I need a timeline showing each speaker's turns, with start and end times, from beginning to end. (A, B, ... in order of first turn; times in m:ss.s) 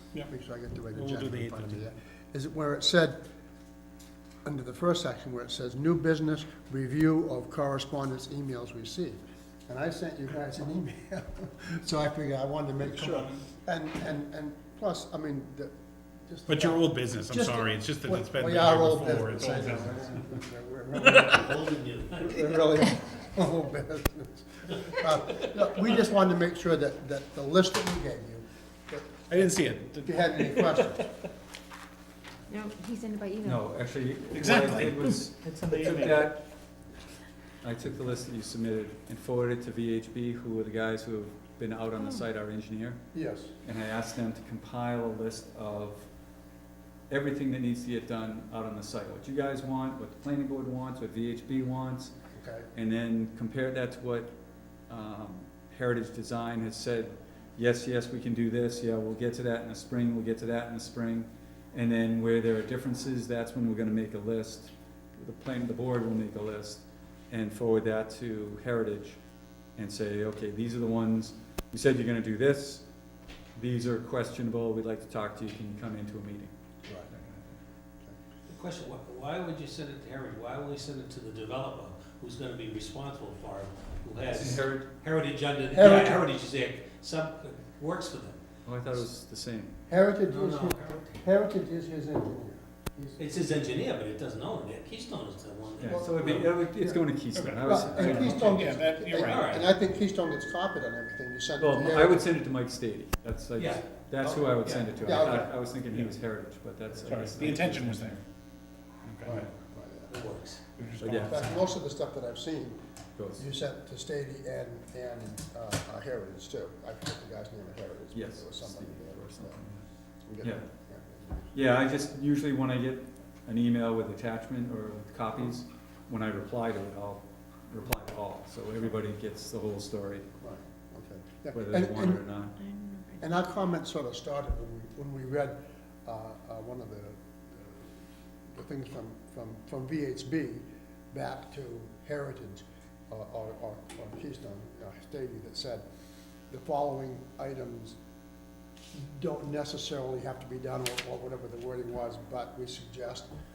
0:00.2-0:03.2 A
0:00.9-0:01.8 B
0:04.4-0:15.7 A
0:12.8-0:13.4 B
0:16.3-0:21.6 A
0:16.5-0:20.4 B
0:21.0-0:22.9 C
0:22.2-0:31.1 A
0:29.3-0:30.9 B
0:32.5-0:33.6 D
0:33.4-0:36.4 E
0:34.3-0:36.3 B
0:37.6-0:43.0 E
0:43.1-0:43.5 A
0:43.6-0:46.1 E
0:47.1-0:52.1 E
0:52.4-0:52.7 A
0:52.7-0:54.3 E
0:54.9-1:09.2 E
1:09.8-1:12.8 E
1:13.6-1:16.5 E
1:16.8-1:17.1 A
1:17.1-1:17.5 E
1:18.5-1:28.4 C
1:24.3-1:24.9 E
1:25.7-1:26.2 A
1:28.7-1:29.8 E
1:29.9-1:33.2 A
1:30.3-1:31.2 C
1:33.2-1:36.6 C
1:35.8-1:38.7 E
1:35.8-1:37.0 A
1:37.3-1:39.6 B
1:37.6-1:42.3 A
1:39.2-1:39.7 C
1:41.6-1:48.2 E
1:43.6-1:43.8 C
1:44.2-1:45.5 A
1:44.6-1:44.9 C
1:47.0-1:48.2 B
1:49.0-1:49.5 B
1:49.2-1:50.2 A
1:50.1-1:50.6 C
1:50.8-1:51.6 B
1:51.0-1:51.4 E
1:51.0-1:52.8 A
1:53.2-1:53.4 E
1:53.4-1:59.6 A
1:58.1-1:59.8 E
2:00.3-2:01.5 A
2:01.5-2:10.3 E
2:10.4-2:12.2 A
2:11.5-2:12.6 E
2:12.6-2:13.5 D
2:13.2-2:17.9 A
2:18.5-2:25.8 A
2:26.5-2:28.0 A
2:28.9-2:33.3 A